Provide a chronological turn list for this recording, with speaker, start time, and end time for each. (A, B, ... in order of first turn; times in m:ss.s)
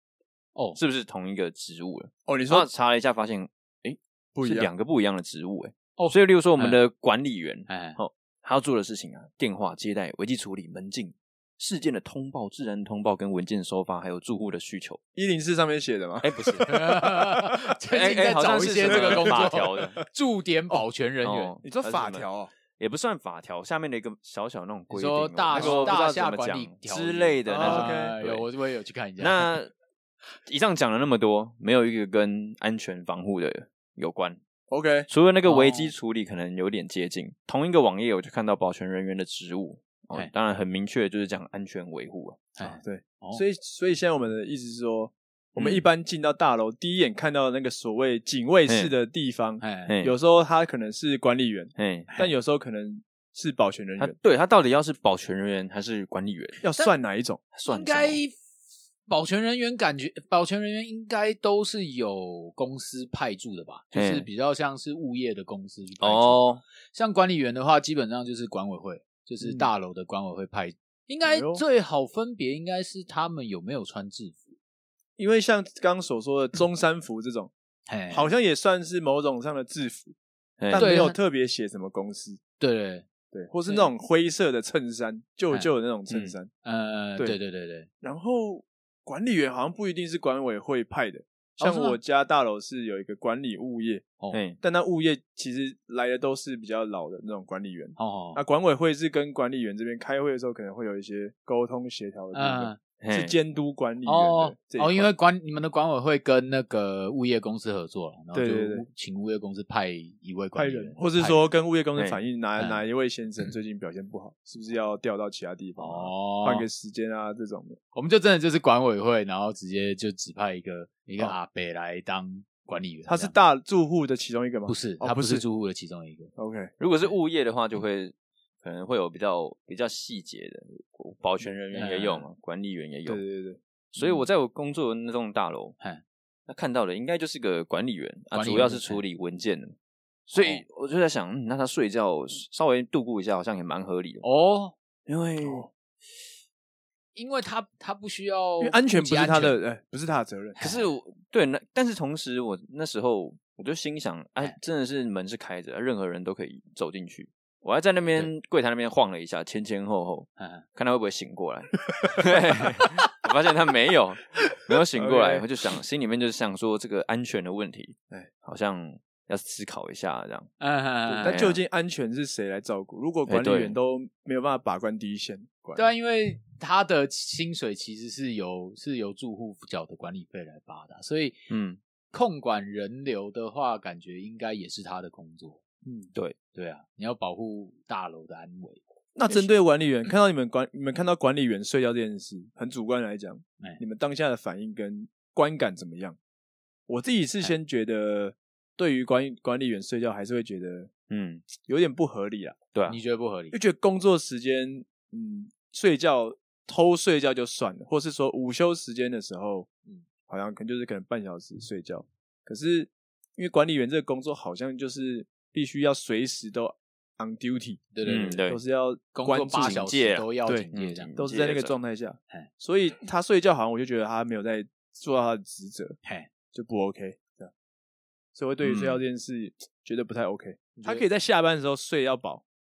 0:00.8-0:15.0 A
0:02.3-0:02.7 B
0:04.4-0:04.7 B
0:06.0-0:06.8 C
0:07.7-0:08.0 C
0:15.2-0:17.6 B
0:16.2-0:16.8 A
0:16.4-0:21.6 C
0:17.9-0:20.0 A
0:18.8-0:20.1 B
0:21.2-0:22.3 A
0:21.6-0:22.5 B
0:22.8-0:28.4 A
0:24.9-0:29.6 C
0:25.5-0:26.0 B
0:27.5-0:28.2 B
0:29.2-0:29.7 A
0:30.5-0:34.4 A
0:34.7-0:35.1 B
0:35.1-0:42.5 A
0:35.5-0:35.9 C
0:42.6-0:43.4 C
0:42.6-0:54.2 B
0:45.6-0:45.8 A
0:49.6-0:49.9 C
0:49.9-0:50.2 A
0:51.8-0:52.1 A
0:54.0-0:56.6 A
0:56.6-0:57.4 B
0:57.5-0:58.2 A
0:57.7-0:58.4 C
0:59.1-1:14.5 C
1:03.9-1:04.3 A
1:06.0-1:06.6 A
1:11.3-1:11.6 B
1:15.2-1:17.5 B
1:17.9-1:18.3 C
1:18.1-1:20.1 B
1:20.6-1:20.9 A
1:20.7-1:22.4 B
1:20.7-1:21.2 C
1:22.6-1:23.1 C
1:23.3-1:26.5 B
1:26.1-1:26.4 A
1:26.6-1:27.9 C
1:28.0-1:34.0 B
1:31.6-1:32.0 C
1:34.3-1:34.6 A
1:34.6-1:45.1 B
1:38.0-1:38.4 C
1:42.3-1:42.8 C
1:43.0-1:43.4 A
1:44.0-1:51.5 C
1:48.3-1:48.9 B
1:50.6-1:57.8 B
1:55.8-1:56.7 C
1:57.9-2:03.4 C
2:03.1-2:05.4 B
2:04.7-2:06.3 C
2:06.4-2:06.7 B
2:06.8-2:13.2 A
2:11.7-2:12.3 C
2:13.1-2:13.6 B
2:14.0-2:15.8 A
2:16.5-2:19.8 A
2:18.3-2:19.0 C
2:20.3-2:24.2 A
2:20.4-2:20.6 C
2:24.2-2:24.8 C
2:25.1-2:25.7 A
2:25.4-2:25.7 B
2:27.2-2:29.6 C
2:28.6-2:30.6 B
2:30.6-2:30.9 C
2:30.6-2:50.5 A
2:40.4-2:40.6 C
2:45.0-2:45.5 B
2:50.6-2:51.4 C
2:51.1-2:55.9 B
2:51.2-2:51.6 A
2:53.3-2:53.8 A
2:55.8-3:01.5 C
3:01.5-3:01.8 A
3:02.1-3:05.6 C
3:05.8-3:06.1 B
3:06.5-3:08.8 C
3:09.2-3:16.2 B
3:16.9-3:20.9 B
3:21.1-3:21.4 A
3:21.6-3:22.6 B
3:22.7-3:23.0 A
3:22.9-3:23.6 C
3:23.5-3:29.7 B
3:30.3-3:37.8 B
3:37.9-3:38.5 C
3:38.0-3:38.6 A
3:38.5-3:39.8 B
3:39.1-3:41.1 C
3:39.6-3:41.8 A
3:40.5-3:46.0 B
3:46.0-3:46.3 C
3:46.5-3:47.5 B
3:48.4-3:52.4 B
3:50.8-3:51.1 C